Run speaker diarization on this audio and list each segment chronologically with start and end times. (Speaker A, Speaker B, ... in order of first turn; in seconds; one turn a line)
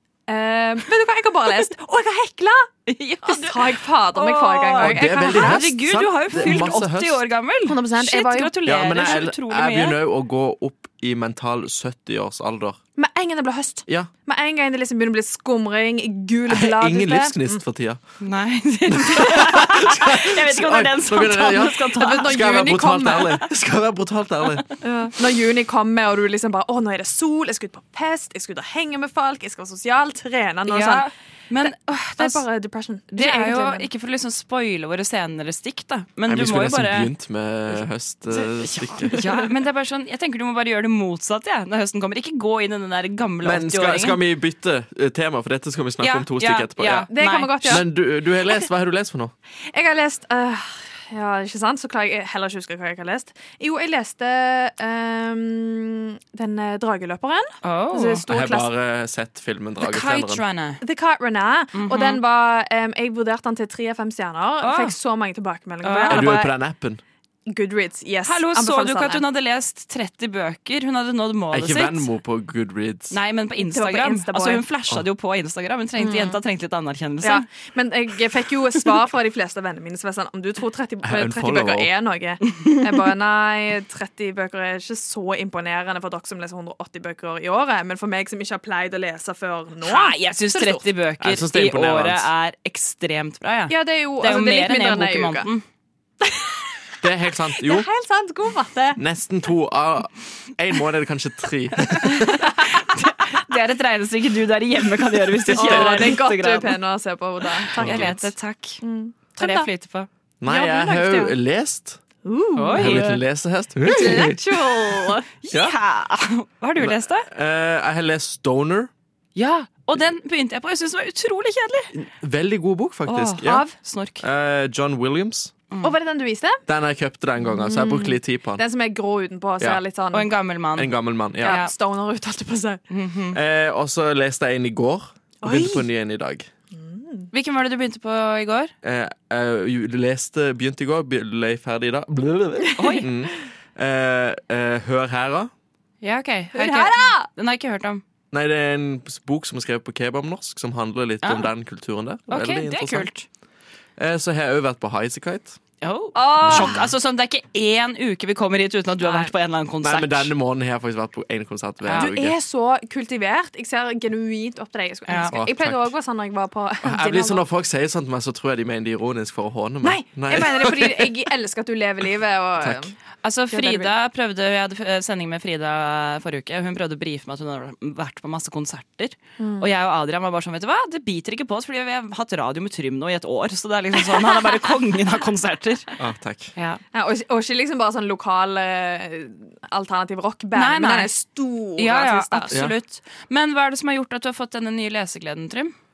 Speaker A: 0.3-5.7
Speaker B: 2.9-10.0
Speaker C: 4.8-7.2
Speaker A: 6.3-6.8
Speaker A: 7.7-9.1
Speaker C: 8.7-12.8
Speaker A: 13.0-17.6
Speaker C: 16.5-18.0
Speaker B: 18.2-22.6
Speaker C: 19.2-24.6
Speaker A: 22.0-23.4
Speaker A: 24.8-33.9
Speaker B: 30.7-32.4
Speaker B: 33.1-37.1
Speaker C: 36.3-39.2
Speaker B: 38.3-44.2
Speaker C: 43.4-47.1
Speaker B: 46.0-47.8
Speaker A: 47.1-47.9
Speaker C: 47.6-49.3
Speaker A: 49.7-58.7
Speaker B: 57.6-58.2
Speaker C: 58.3-60.4
Speaker B: 59.8-60.8
Speaker A: 60.8-66.5
Speaker B: 61.7-62.2
Speaker B: 64.6-65.0
Speaker B: 65.8-66.5
Speaker C: 66.1-67.0
Speaker A: 67.5-69.2
Speaker B: 68.2-72.1
Speaker C: 71.5-73.2
Speaker B: 73.1-77.5
Speaker A: 73.6-74.6
Speaker A: 76.0-76.4
Speaker A: 77.2-90.8
Speaker C: 81.0-81.9
Speaker B: 89.8-95.6
Speaker C: 91.2-92.3
Speaker A: 93.7-95.5
Speaker A: 96.2-96.6
Speaker C: 97.0-97.9
Speaker A: 97.6-99.0
Speaker C: 99.0-102.3
Speaker B: 102.0-106.8
Speaker A: 105.5-108.3
Speaker B: 107.7-108.8
Speaker C: 107.8-108.1
Speaker A: 108.8-109.7
Speaker B: 109.4-110.1
Speaker C: 110.4-112.0
Speaker A: 110.5-111.4
Speaker A: 112.2-113.1
Speaker B: 112.6-113.2
Speaker C: 112.8-114.9
Speaker B: 113.8-114.4
Speaker A: 113.8-115.3
Speaker B: 115.4-117.3
Speaker C: 115.5-115.8
Speaker C: 116.8-118.9
Speaker B: 119.4-121.9
Speaker C: 121.9-123.7
Speaker B: 123.1-124.2
Speaker C: 124.2-125.5
Speaker A: 125.8-126.6
Speaker C: 126.7-128.6
Speaker A: 127.4-130.3
Speaker B: 130.1-131.7
Speaker C: 130.8-131.6
Speaker A: 131.4-132.8
Speaker B: 132.9-133.4
Speaker C: 133.3-136.5
Speaker A: 135.4-135.9
Speaker A: 136.7-137.3
Speaker B: 137.3-138.7
Speaker C: 138.8-145.5
Speaker A: 142.8-143.1
Speaker B: 142.8-143.1
Speaker B: 146.0-148.0
Speaker A: 146.5-147.3
Speaker C: 148.3-153.1
Speaker B: 151.2-151.5
Speaker B: 152.3-153.3
Speaker C: 154.0-155.6
Speaker B: 155.8-160.3
Speaker A: 156.2-156.8
Speaker C: 156.5-156.7
Speaker A: 159.0-159.3
Speaker C: 159.8-162.4
Speaker B: 161.9-162.1
Speaker A: 161.9-167.4
Speaker B: 165.1-165.3
Speaker C: 165.3-165.9
Speaker C: 166.8-171.1
Speaker A: 169.8-172.9
Speaker C: 172.6-172.9
Speaker B: 173.2-185.9
Speaker A: 173.5-173.9
Speaker A: 179.4-179.7
Speaker C: 186.0-186.5
Speaker B: 186.6-186.8
Speaker A: 186.9-192.6
Speaker B: 190.6-191.1
Speaker B: 191.8-195.7